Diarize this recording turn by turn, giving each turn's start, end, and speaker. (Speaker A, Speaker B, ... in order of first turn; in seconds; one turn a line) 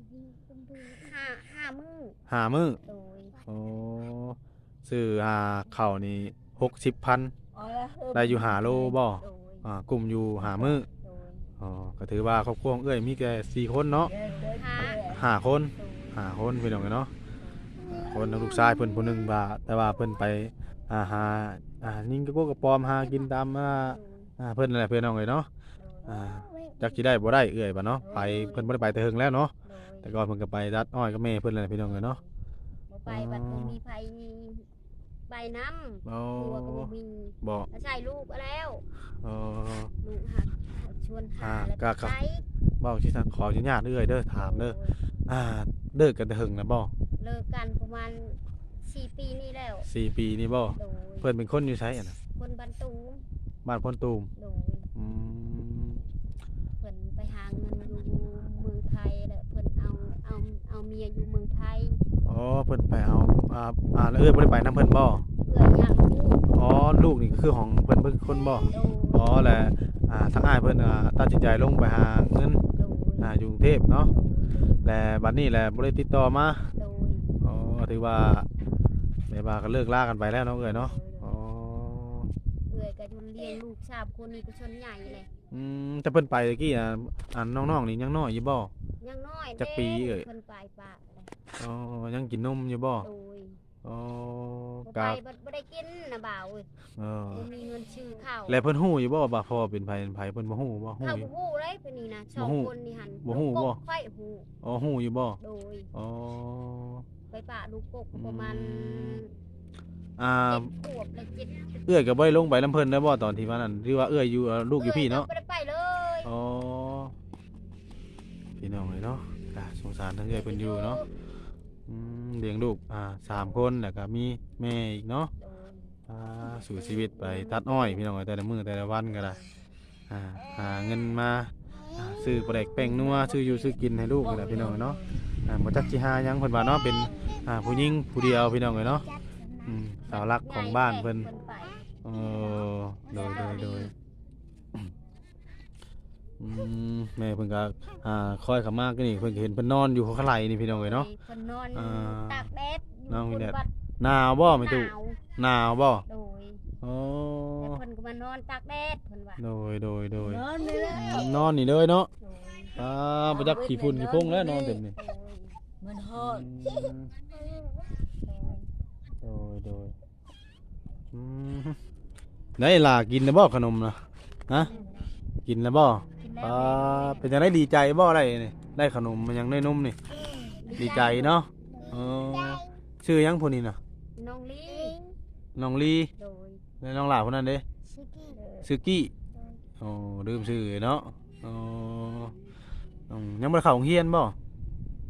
Speaker A: 0.3-0.9
Speaker B: 0.9-2.2
Speaker C: 2.3-2.8
Speaker B: 2.8-3.4
Speaker C: 3.4-7.3
Speaker A: 7.5-9.0
Speaker C: 8.1-10.8
Speaker B: 9.2-9.7
Speaker B: 11.0-11.5
Speaker C: 11.6-14.1
Speaker A: 14.0-15.3
Speaker B: 14.2-15.2
Speaker C: 14.8-17.1
Speaker B: 15.7-16.4
Speaker B: 17.4-17.8
Speaker A: 17.8-18.4
Speaker C: 18.0-25.5
Speaker B: 23.0-24.3
Speaker B: 25.8-26.4
Speaker C: 26.1-32.2
Speaker B: 28.0-29.0
Speaker B: 29.6-30.1
Speaker B: 31.6-32.3
Speaker B: 32.9-34.7
Speaker C: 33.1-33.8
Speaker B: 35.3-38.9
Speaker C: 36.0-37.7
Speaker C: 39.2-39.9
Speaker B: 40.0-42.5
Speaker C: 41.4-42.2
Speaker C: 42.8-46.9
Speaker B: 44.3-45.0
Speaker B: 47.2-49.9
Speaker C: 49.9-52.2
Speaker B: 50.8-51.3
Speaker B: 52.4-53.2
Speaker C: 53.6-54.3
Speaker B: 54.4-54.9
Speaker C: 54.9-56.0
Speaker B: 56.8-62.0
Speaker C: 62.2-65.2
Speaker B: 65.4-66.5
Speaker C: 66.5-72.6
Speaker B: 68.6-69.5
Speaker B: 72.7-73.3
Speaker C: 73.2-74.1
Speaker B: 74.1-74.8
Speaker C: 74.8-76.7
Speaker B: 76.7-77.4
Speaker C: 77.4-78.5
Speaker C: 79.3-82.3
Speaker B: 80.6-81.2
Speaker B: 82.7-85.3
Speaker C: 85.5-88.7
Speaker B: 89.0-91.3
Speaker C: 89.6-90.2
Speaker C: 91.5-93.1
Speaker B: 93.0-93.6
Speaker C: 93.8-95.2
Speaker B: 94.8-96.7
Speaker C: 97.0-97.5
Speaker B: 97.3-98.6
Speaker C: 98.5-101.3
Speaker B: 101.0-104.5
Speaker C: 102.4-102.7
Speaker C: 103.2-103.8
Speaker C: 104.6-105.4
Speaker B: 105.4-105.9
Speaker C: 105.9-107.0
Speaker B: 107.3-109.3
Speaker C: 108.1-109.2
Speaker C: 110.2-110.7
Speaker B: 110.4-111.9
Speaker C: 111.8-115.3
Speaker B: 114.7-116.3
Speaker C: 116.2-117.1
Speaker C: 118.6-121.0
Speaker B: 120.3-121.1
Speaker C: 121.9-125.3
Speaker B: 123.3-123.6
Speaker B: 125.4-128.1
Speaker C: 126.1-129.4
Speaker B: 129.1-129.6
Speaker C: 130.1-139.1
Speaker B: 132.3-133.8
Speaker A: 134.2-135.3
Speaker B: 137.0-137.6
Speaker B: 138.7-139.1
Speaker C: 139.6-141.3
Speaker B: 140.1-143.9
Speaker C: 142.0-143.9
Speaker C: 146.4-151.1
Speaker B: 150.7-153.7
Speaker C: 151.7-152.5
Speaker C: 153.1-156.0
Speaker B: 154.3-155.2
Speaker B: 156.0-156.6
Speaker C: 156.8-157.8
Speaker B: 157.6-159.4
Speaker C: 159.4-162.1
Speaker A: 160.2-161.4
Speaker B: 160.6-161.3
Speaker B: 162.2-162.8
Speaker C: 162.8-164.9
Speaker A: 163.3-164.8
Speaker B: 164.9-165.6
Speaker A: 165.8-166.9
Speaker C: 166.2-167.1
Speaker B: 167.4-168.7
Speaker C: 169.2-169.9
Speaker C: 171.1-171.8
Speaker C: 172.6-174.7
Speaker B: 174.5-175.1
Speaker C: 175.4-180.0
Speaker B: 176.2-177.3
Speaker B: 180.6-181.4
Speaker C: 180.7-183.8
Speaker B: 184.2-185.0
Speaker C: 185.6-186.1
Speaker B: 186.2-186.6
Speaker C: 186.8-187.6
Speaker B: 187.9-188.5
Speaker C: 188.6-189.1
Speaker C: 189.8-192.3
Speaker C: 193.1-194.3